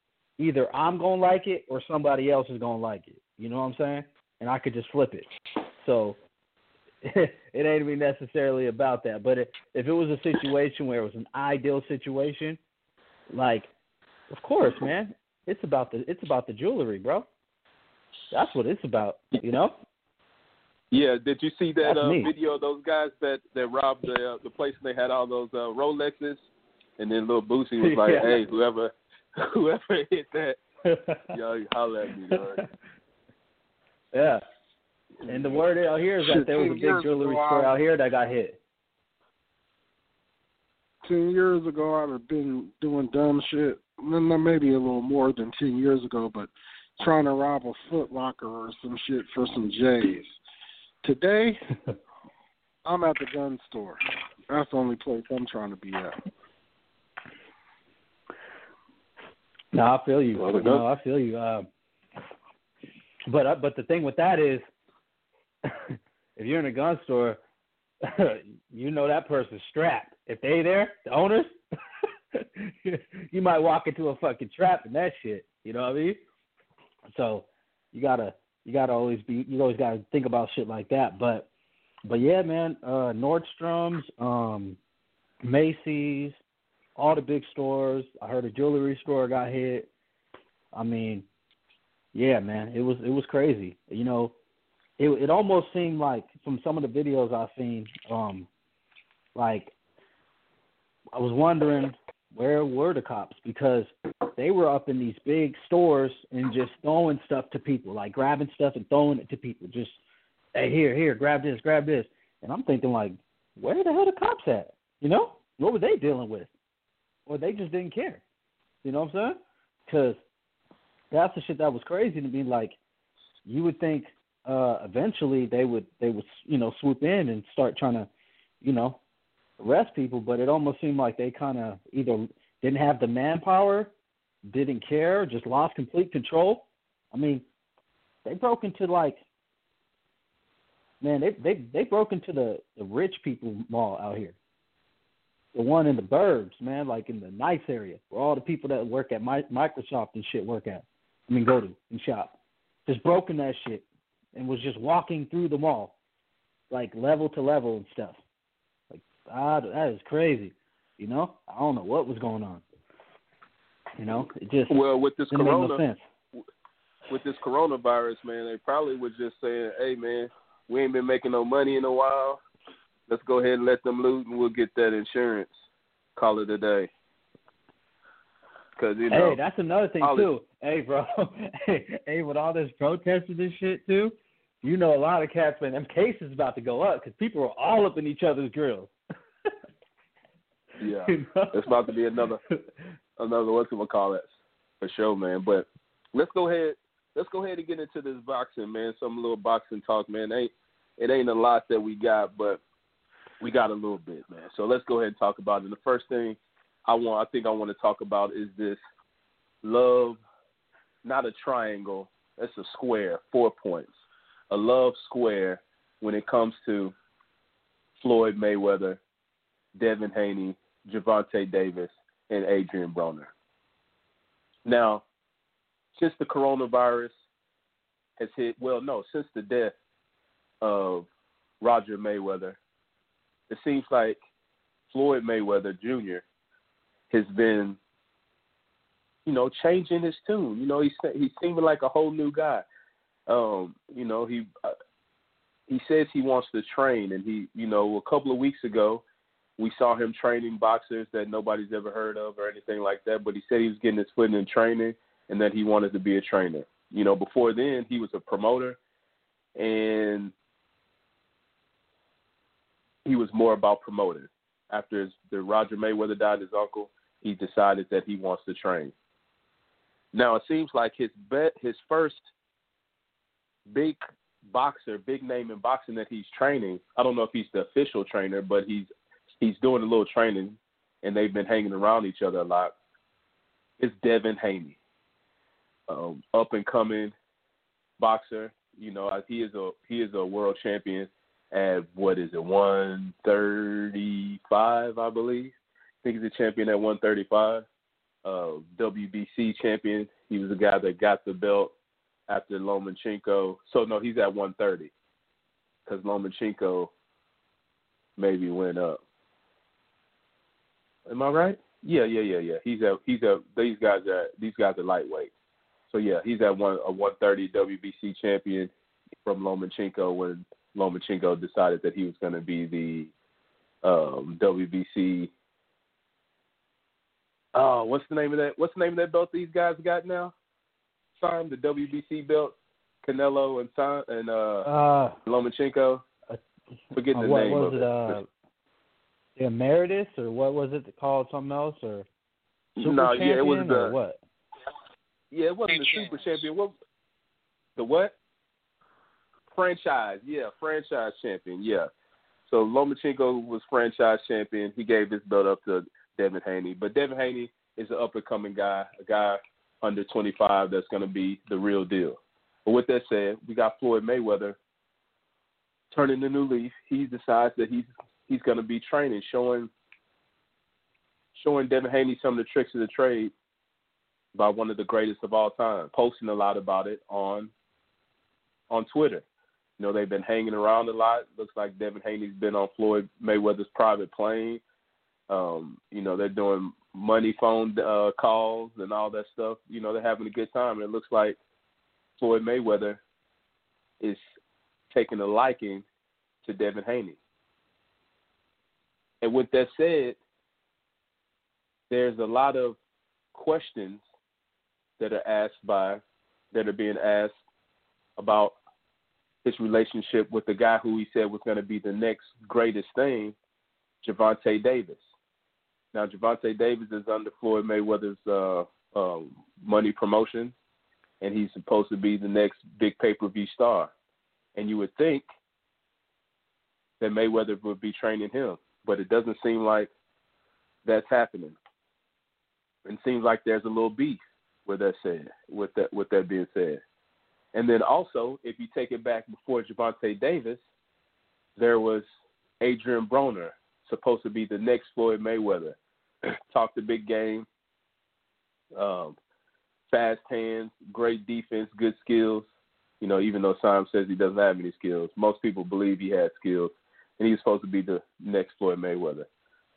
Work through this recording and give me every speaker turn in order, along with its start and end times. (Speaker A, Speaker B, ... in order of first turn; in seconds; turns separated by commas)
Speaker A: 0.4-6.2, Speaker A: 7.0-12.6, Speaker A: 13.3-13.7, Speaker A: 14.3-17.2, Speaker A: 18.3-19.8, Speaker B: 20.9-26.4, Speaker A: 21.8-22.3, Speaker B: 27.0-30.6, Speaker A: 27.8-28.5, Speaker A: 30.9-31.3, Speaker B: 31.3-32.6, Speaker A: 34.1-34.4, Speaker A: 35.2-38.6, Speaker C: 36.2-37.7, Speaker C: 41.0-50.4, Speaker C: 51.0-51.6, Speaker C: 52.8-56.1, Speaker A: 59.7-61.7, Speaker B: 60.4-60.9, Speaker A: 63.2-64.6, Speaker A: 65.7-67.4, Speaker A: 68.0-71.5, Speaker A: 72.3-76.2, Speaker A: 77.1-81.5, Speaker A: 82.0-84.8, Speaker A: 85.4-86.4, Speaker A: 87.0-89.9, Speaker A: 90.7-91.2, Speaker A: 92.1-94.3, Speaker A: 95.0-98.5, Speaker A: 99.3-99.7, Speaker A: 101.1-110.0, Speaker A: 110.5-116.5, Speaker A: 117.3-118.2, Speaker A: 118.8-120.2, Speaker A: 121.1-122.8, Speaker A: 123.5-128.1, Speaker A: 128.6-129.0, Speaker A: 129.6-133.9, Speaker A: 134.4-137.4, Speaker A: 138.2-139.2, Speaker A: 141.0-144.3, Speaker A: 145.5-155.9, Speaker A: 156.7-158.2, Speaker A: 158.9-162.6, Speaker A: 164.0-164.8, Speaker B: 164.7-165.8, Speaker A: 165.3-166.0, Speaker B: 167.1-172.4, Speaker B: 173.1-175.5, Speaker B: 176.2-176.9, Speaker B: 178.8-179.4, Speaker A: 179.1-188.9, Speaker B: 180.0-180.3, Speaker B: 190.8-192.4, Speaker A: 191.1-191.9, Speaker B: 193.2-194.2, Speaker B: 194.8-202.6, Speaker B: 203.4-208.8, Speaker B: 209.6-210.2, Speaker B: 211.0-213.9, Speaker B: 214.5-216.9, Speaker B: 218.0-219.0, Speaker B: 219.7-223.3, Speaker B: 224.6-225.0, Speaker B: 225.9-227.1, Speaker B: 228.2-229.7, Speaker B: 230.6-231.1, Speaker B: 231.6-232.6, Speaker B: 233.5-234.2, Speaker B: 234.9-236.2, Speaker B: 237.1-237.8, Speaker B: 239.2-242.7, Speaker B: 243.3-244.7, Speaker B: 245.7-249.0, Speaker B: 249.6-258.8, Speaker B: 259.6-260.3, Speaker B: 263.0-268.9, Speaker B: 270.1-272.2, Speaker B: 273.7-282.7, Speaker B: 283.8-284.8, Speaker B: 285.9-287.1, Speaker B: 288.0-297.6, Speaker B: 298.2-301.7, Speaker B: 302.3-304.9, Speaker B: 305.9-306.9, Speaker B: 308.2-309.0, Speaker B: 311.1-315.3, Speaker B: 315.9-318.7, Speaker B: 319.2-323.1, Speaker B: 323.8-325.3, Speaker B: 327.5-330.3, Speaker B: 331.2-334.7, Speaker A: 334.6-335.2, Speaker B: 335.2-336.0, Speaker B: 336.9-338.2, Speaker A: 337.1-338.2, Speaker A: 339.4-342.1, Speaker B: 342.8-343.9, Speaker A: 342.8-344.2, Speaker B: 345.3-346.7, Speaker B: 347.8-348.1, Speaker B: 349.5-351.9, Speaker B: 352.5-364.6, Speaker B: 365.9-369.7, Speaker B: 371.4-373.3, Speaker B: 374.3-377.5, Speaker B: 378.7-379.2, Speaker B: 379.8-384.6, Speaker B: 385.3-391.4, Speaker B: 392.2-393.0, Speaker B: 394.9-395.8, Speaker B: 396.4-397.2, Speaker B: 399.2-400.2, Speaker B: 401.9-402.8, Speaker B: 403.3-404.0, Speaker B: 405.0-406.0, Speaker B: 406.5-407.3, Speaker B: 408.2-408.6, Speaker B: 409.4-413.3, Speaker B: 414.0-415.0, Speaker B: 415.9-420.5, Speaker B: 421.2-423.9, Speaker B: 424.6-425.2, Speaker B: 427.0-429.9, Speaker B: 430.8-431.6, Speaker B: 432.8-436.8, Speaker B: 437.5-440.6, Speaker B: 441.6-442.0, Speaker B: 442.6-445.8, Speaker B: 446.5-447.4, Speaker B: 448.7-449.2, Speaker B: 449.9-452.5, Speaker B: 453.0-459.3